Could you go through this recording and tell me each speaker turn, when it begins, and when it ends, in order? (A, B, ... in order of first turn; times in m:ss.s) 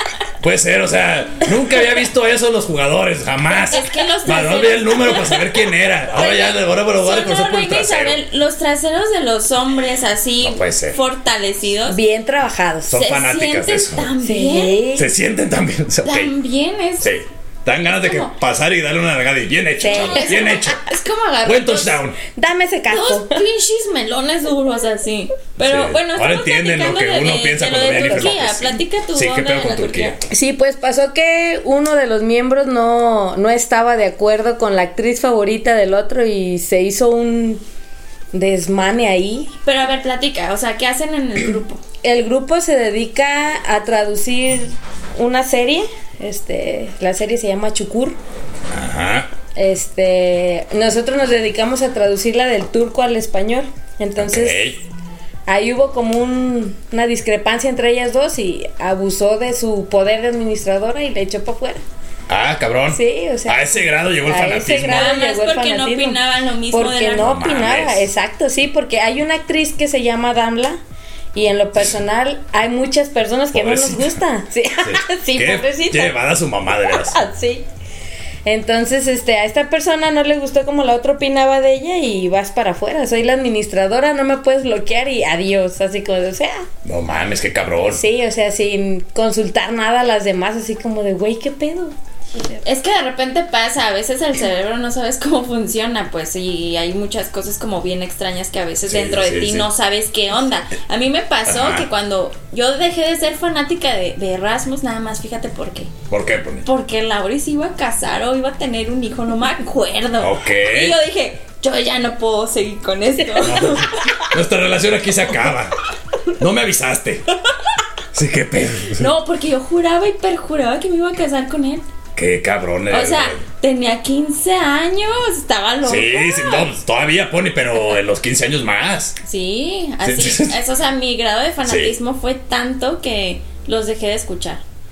0:00.4-0:08.2 A
0:03.7-0:05.5 B
0:06.1-0:12.0 B
0:10.4-0:11.0 A
0:11.9-0:13.0 C
0:12.9-0:14.1 A
0:12.9-0:14.8 B
0:14.2-0:15.1 C
0:14.9-0:16.3 A
0:16.0-0:17.1 B
0:17.0-0:20.8 A
0:17.9-0:18.3 B
0:19.8-0:20.5 C
0:19.9-0:22.0 B
0:21.4-0:22.2 A
0:22.3-0:23.4 C
0:22.9-0:30.2 B
0:25.6-0:30.2 A
0:27.9-0:28.3 C
0:30.3-0:37.6 C
0:38.3-0:39.5 C
0:39.6-0:41.8 B
0:42.0-0:48.2 C
0:48.7-0:49.3 A
0:49.5-0:54.6 C
0:54.2-0:54.8 A
0:55.5-1:01.8 C
1:02.3-1:05.1 A
1:02.9-1:10.8 C
1:04.8-1:07.4 B
1:07.2-1:08.1 A
1:11.3-1:16.1 C
1:13.5-1:14.2 A
1:14.8-1:17.2 A
1:17.1-1:17.6 B
1:18.4-1:26.6 C
1:26.8-1:28.0 A
1:27.8-1:31.9 C
1:32.6-1:45.9 B
1:38.8-1:39.7 A
1:41.5-1:41.9 A
1:46.1-1:46.6 A
1:46.6-1:54.2 B
1:50.2-1:51.0 A
1:53.4-1:55.7 A
1:56.4-1:57.3 A
1:58.1-1:59.1 A
1:59.0-2:01.8 B
2:02.1-2:03.4 A
2:02.9-2:06.7 B
2:05.8-2:09.2 A
2:09.2-2:14.6 B
2:10.0-2:10.6 A
2:11.6-2:11.9 A